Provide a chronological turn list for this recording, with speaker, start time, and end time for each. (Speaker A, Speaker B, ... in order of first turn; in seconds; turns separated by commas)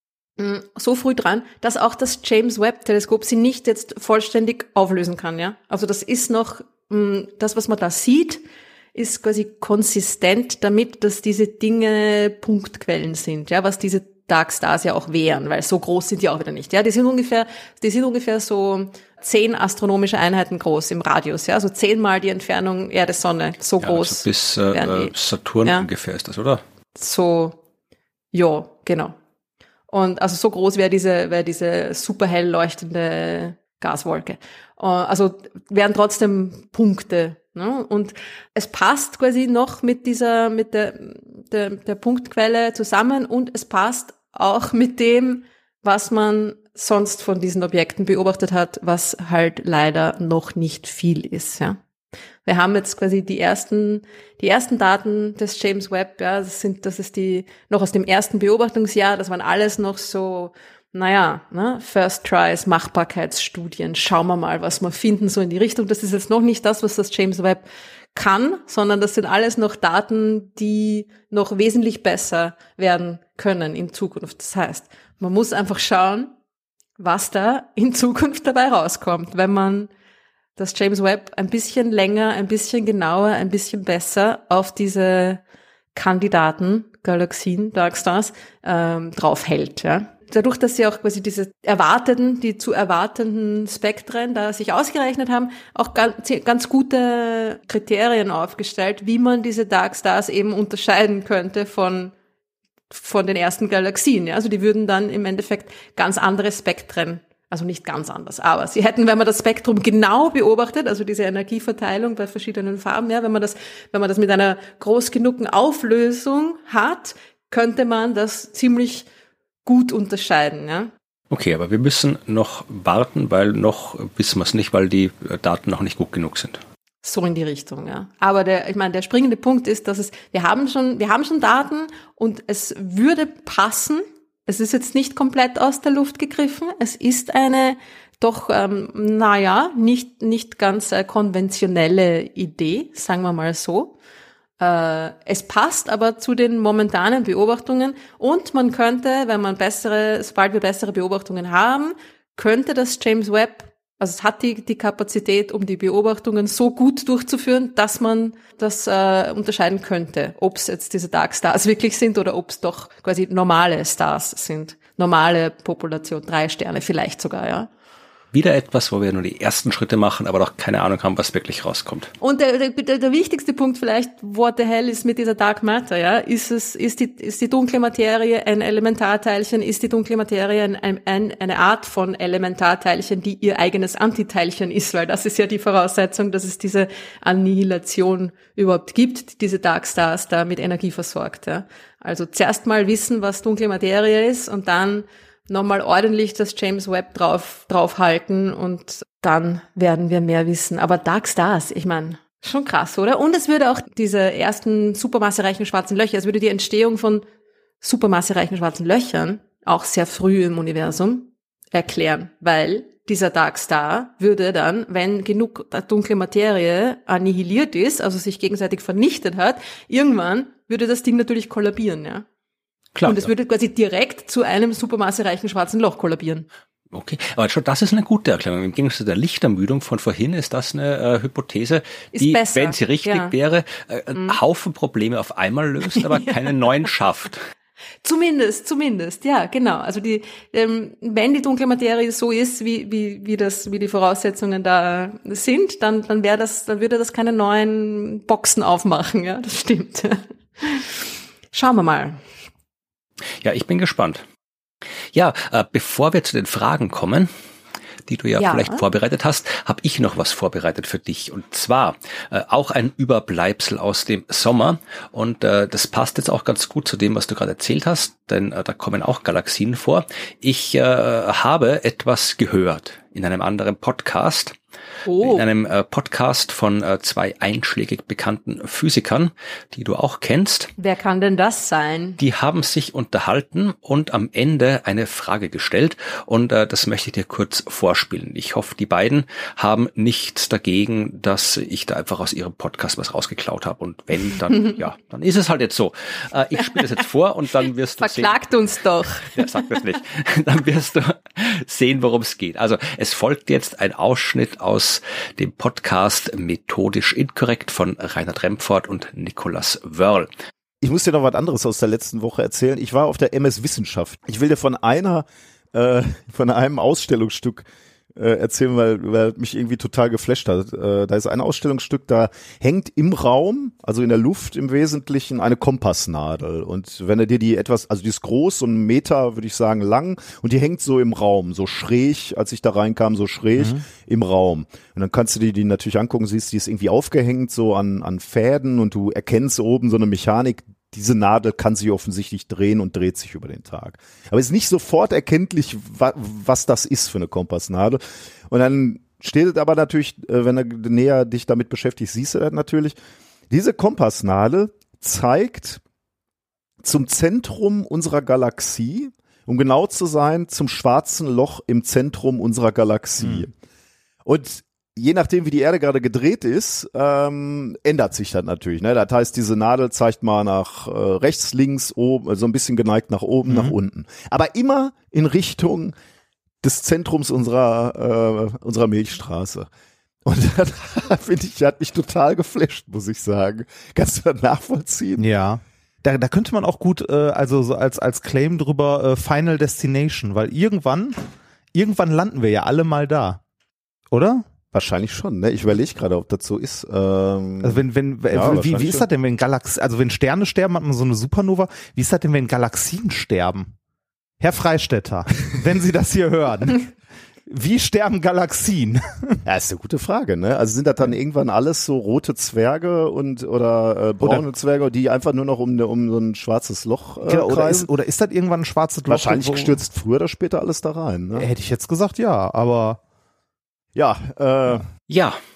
Speaker A: 0.4-8.4, Speaker A: 8.9-25.1, Speaker B: 23.8-26.6, Speaker A: 27.0-27.6, Speaker A: 28.3-29.1, Speaker A: 29.9-51.8, Speaker A: 52.5-76.3, Speaker A: 77.0-79.9, Speaker A: 80.6-85.4, Speaker A: 85.9-102.1, Speaker A: 102.9-119.1, Speaker A: 119.7-120.9, Speaker B: 121.3-126.6, Speaker A: 127.0-144.0, Speaker A: 144.6-167.7, Speaker B: 168.3-172.1, Speaker A: 172.2-207.2, Speaker A: 207.8-222.2, Speaker B: 222.9-223.3, Speaker A: 223.0-226.5, Speaker B: 226.9-237.4, Speaker A: 232.1-233.3, Speaker A: 238.0-251.0, Speaker A: 251.5-252.2, Speaker B: 253.4-254.2, Speaker B: 255.1-257.3, Speaker B: 258.1-274.6, Speaker A: 258.4-258.8, Speaker A: 275.1-275.4, Speaker B: 275.2-280.7, Speaker A: 280.8-282.2, Speaker B: 282.2-298.4, Speaker A: 298.0-299.7, Speaker B: 299.3-310.3, Speaker C: 310.8-353.0, Speaker C: 353.5-355.8, Speaker C: 356.8-363.5, Speaker D: 363.2-363.5, Speaker C: 364.3-375.9, Speaker D: 373.5-373.8, Speaker C: 376.6-379.7, Speaker C: 380.2-385.3, Speaker D: 385.2-393.4, Speaker D: 394.1-394.5, Speaker C: 394.7-399.1, Speaker D: 397.6-403.7, Speaker D: 404.4-406.9, Speaker D: 407.5-409.4, Speaker C: 409.5-417.9, Speaker D: 417.2-419.8, Speaker C: 419.1-421.5, Speaker D: 421.4-423.0, Speaker C: 423.9-424.9, Speaker B: 425.1-425.4